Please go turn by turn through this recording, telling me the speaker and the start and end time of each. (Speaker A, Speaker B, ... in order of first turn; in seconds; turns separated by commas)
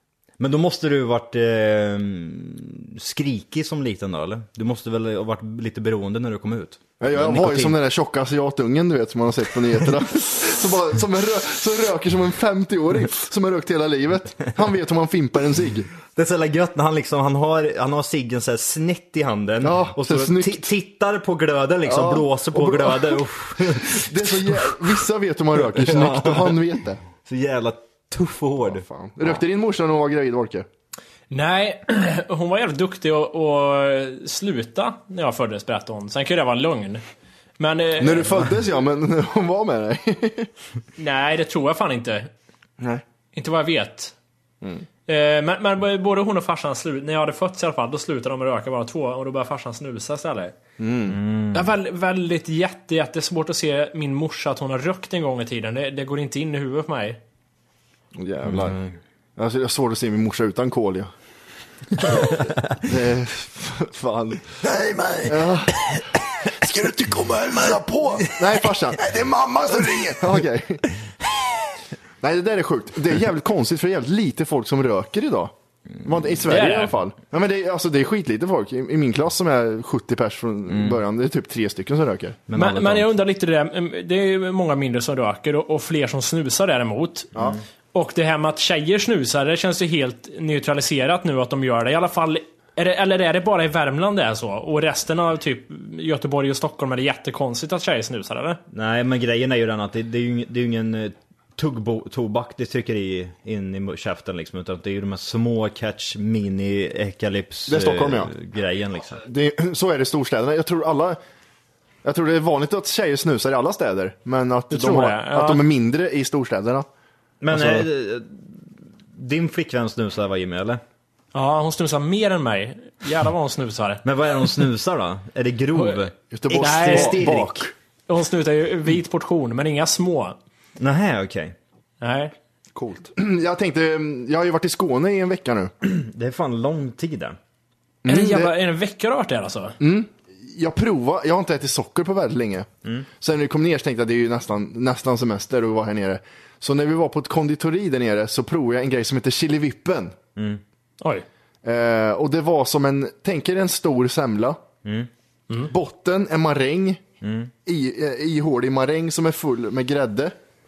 Speaker A: 0.4-7.8, Speaker B: 7.0-15.9, Speaker A: 16.1-24.7, Speaker B: 19.6-20.7, Speaker B: 21.9-27.0, Speaker A: 25.8-26.6, Speaker A: 27.2-28.9, Speaker B: 28.6-30.7, Speaker C: 31.3-37.0, Speaker C: 37.6-38.4, Speaker B: 38.0-40.5, Speaker C: 41.0-42.3, Speaker C: 43.3-44.1, Speaker C: 45.1-50.5, Speaker B: 50.8-51.2, Speaker A: 51.1-51.7, Speaker C: 51.5-57.2, Speaker B: 58.1-58.8, Speaker A: 58.5-59.0, Speaker B: 59.4-61.1, Speaker B: 62.0-64.5, Speaker A: 64.6-65.4, Speaker B: 65.2-65.9, Speaker B: 66.5-70.9, Speaker B: 72.2-75.5, Speaker B: 76.0-82.4, Speaker C: 76.5-77.0, Speaker A: 80.7-81.0, Speaker A: 82.5-83.1, Speaker C: 82.5-87.3, Speaker C: 87.9-98.6, Speaker A: 98.7-109.2, Speaker B: 107.7-108.3, Speaker B: 109.2-111.2, Speaker B: 112.0-116.9, Speaker C: 114.7-115.6, Speaker A: 117.4-118.5, Speaker B: 117.5-117.9, Speaker A: 119.1-120.8, Speaker C: 121.3-124.0, Speaker A: 124.0-127.7, Speaker B: 126.3-127.7, Speaker C: 126.6-127.2, Speaker C: 128.1-130.4, Speaker A: 130.8-131.6, Speaker C: 132.0-132.3, Speaker B: 132.8-135.7, Speaker A: 135.8-137.4, Speaker B: 138.0-138.5, Speaker C: 138.1-139.8, Speaker B: 139.8-150.2, Speaker A: 150.4-150.6, Speaker C: 151.0-151.3, Speaker B: 151.6-154.6, Speaker B: 155.7-157.0, Speaker A: 157.2-157.5, Speaker B: 157.7-160.3